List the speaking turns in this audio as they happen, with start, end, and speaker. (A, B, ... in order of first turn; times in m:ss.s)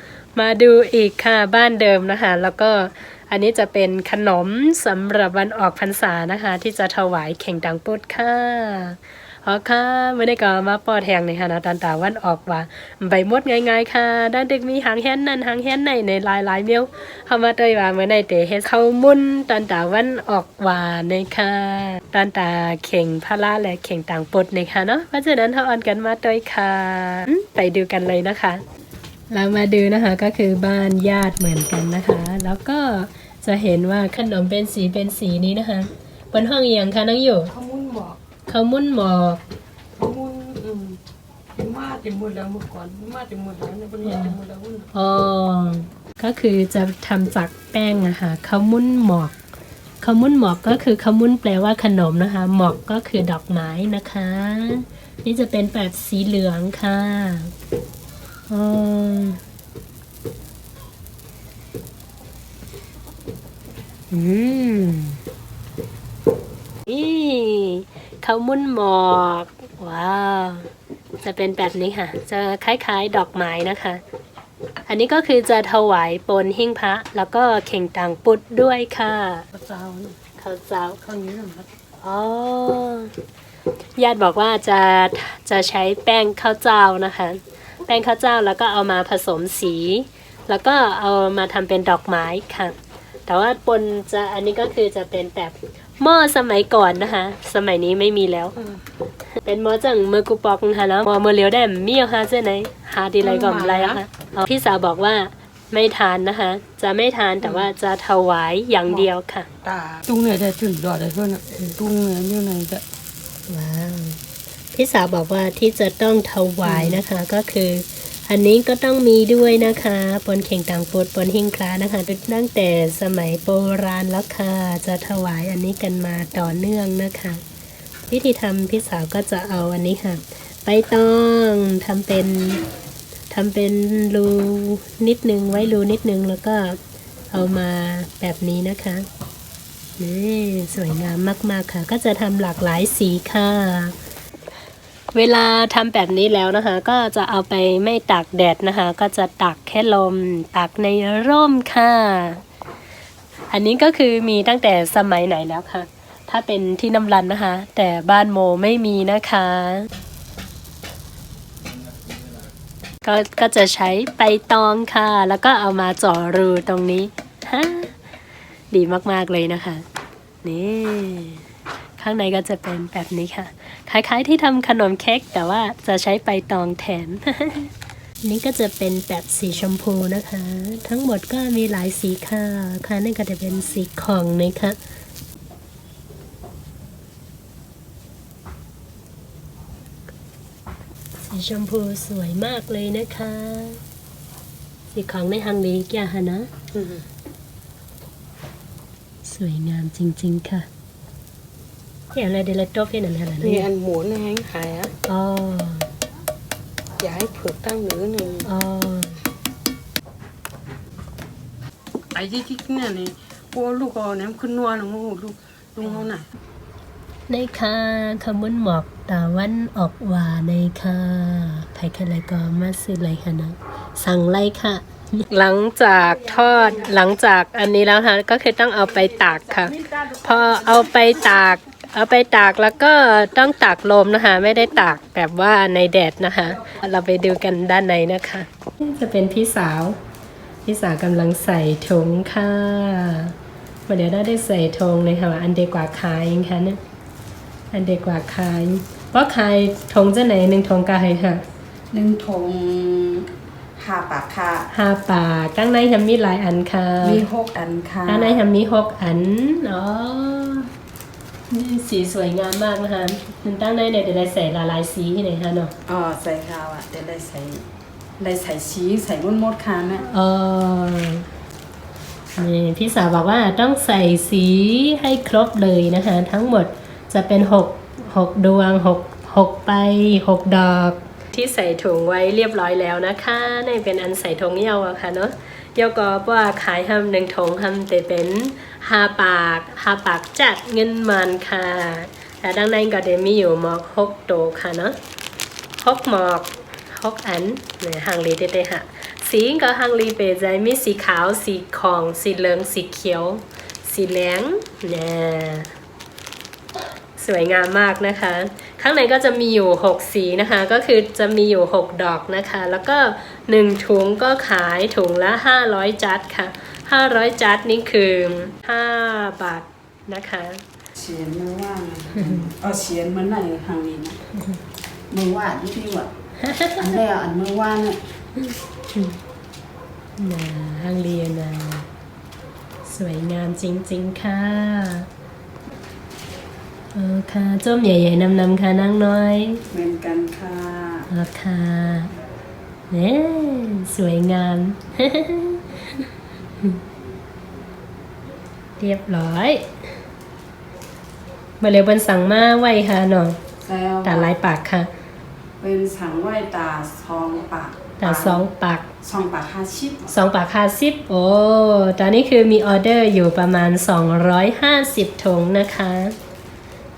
0:00.4-0:28.6 A
0:29.3-0:37.5 A
0:37.5-0:38.2 B
0:38.5-0:39.4 A
0:40.0-0:41.0 B
0:41.6-0:44.9 B
0:44.0-0:44.4 A
0:44.9-0:49.4 A
0:50.0-0:57.5 A
0:58.5-0:59.4 A
1:04.1-1:05.2 A
1:06.9-1:10.7 A
1:11.2-1:14.0 A
1:14.9-1:19.5 A
1:19.5-1:20.2 B
1:20.4-1:21.0 A
1:21.0-1:21.7 B
1:22.0-1:23.1 A
1:24.0-1:38.6 A
1:39.4-1:49.5 A
1:43.2-1:44.0 B
1:47.4-1:47.7 B
1:49.6-1:52.8 B
1:53.5-1:54.2 A
1:54.7-2:07.4 A
1:56.7-1:57.0 B
2:08.1-2:12.6 A
2:13.3-2:16.8 A
2:17.3-2:19.1 A
2:20.0-2:24.0 A
2:25.1-2:32.4 A
2:33.5-2:39.9 A
2:43.0-2:47.9 A
2:48.7-2:49.8 A
2:50.4-2:51.4 A
2:52.0-2:57.7 A
2:58.2-3:04.8 A
3:11.2-3:13.8 A
3:14.9-3:16.5 A
3:16.7-3:17.0 B
3:19.2-3:20.7 A
3:22.1-3:23.7 A
3:23.4-3:24.9 B
3:25.0-3:25.9 A
3:27.0-3:28.5 B
3:28.5-3:29.2 A
3:32.1-3:36.2 B
3:37.3-4:00.0 A
4:00.7-4:03.3 A
4:03.9-4:06.8 A
4:07.7-4:11.4 A
4:11.9-4:14.7 C
4:14.7-4:17.3 A
4:17.0-4:18.4 C
4:18.1-4:20.7 A
4:21.5-4:25.7 A
4:25.9-4:27.6 C
4:28.2-4:30.0 C
4:30.0-4:31.2 A
4:32.4-4:55.0 A
4:55.8-5:05.7 A
5:07.2-5:20.6 A
5:21.0-5:24.2 C
5:22.2-5:22.5 A
5:24.4-5:24.6 A
5:25.1-5:26.1 C
5:26.4-5:27.0 A
5:26.8-5:28.0 C
5:28.4-5:29.2 A
5:30.2-5:31.9 A
5:32.8-5:35.1 A
5:36.9-5:39.6 A
5:39.7-5:41.1 C
5:41.1-5:42.1 A
5:42.9-5:46.1 A
5:48.8-5:49.6 A
5:51.6-5:53.4 A
5:53.6-5:54.4 C
5:54.0-5:54.9 A
5:55.6-5:58.4 C
5:58.0-5:58.9 A
5:59.0-6:00.1 C
6:00.1-6:06.2 A